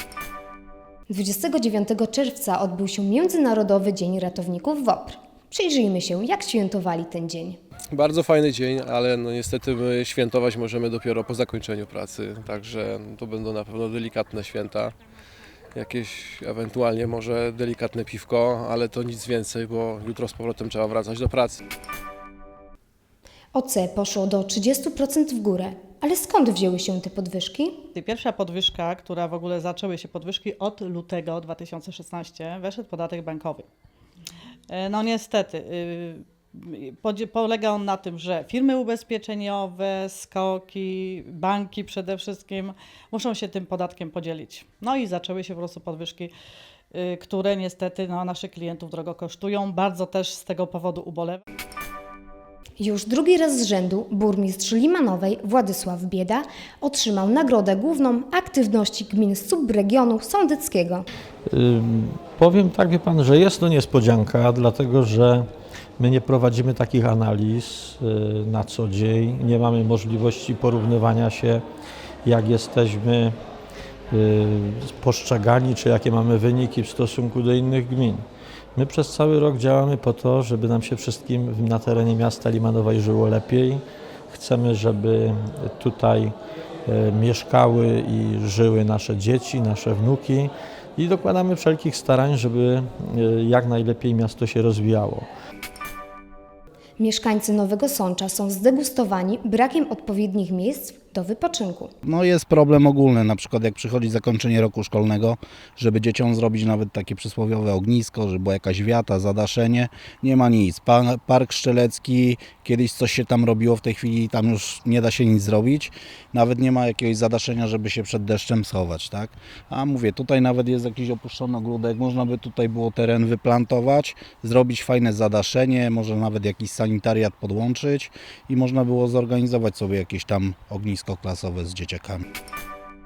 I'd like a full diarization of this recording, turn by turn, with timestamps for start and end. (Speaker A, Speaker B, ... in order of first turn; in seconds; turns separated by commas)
Speaker A: 1.1-7.6, Speaker B: 7.9-14.9, Speaker B: 15.7-21.6, Speaker A: 23.6-27.8, Speaker C: 27.9-33.7, Speaker C: 34.7-46.3, Speaker C: 46.9-51.4, Speaker A: 52.8-61.1, Speaker D: 61.5-65.5, Speaker D: 66.0-71.6, Speaker D: 72.2-73.3, Speaker D: 74.1-78.2, Speaker D: 78.8-86.3, Speaker D: 86.9-95.3, Speaker A: 97.0-101.9, Speaker E: 102.0-132.2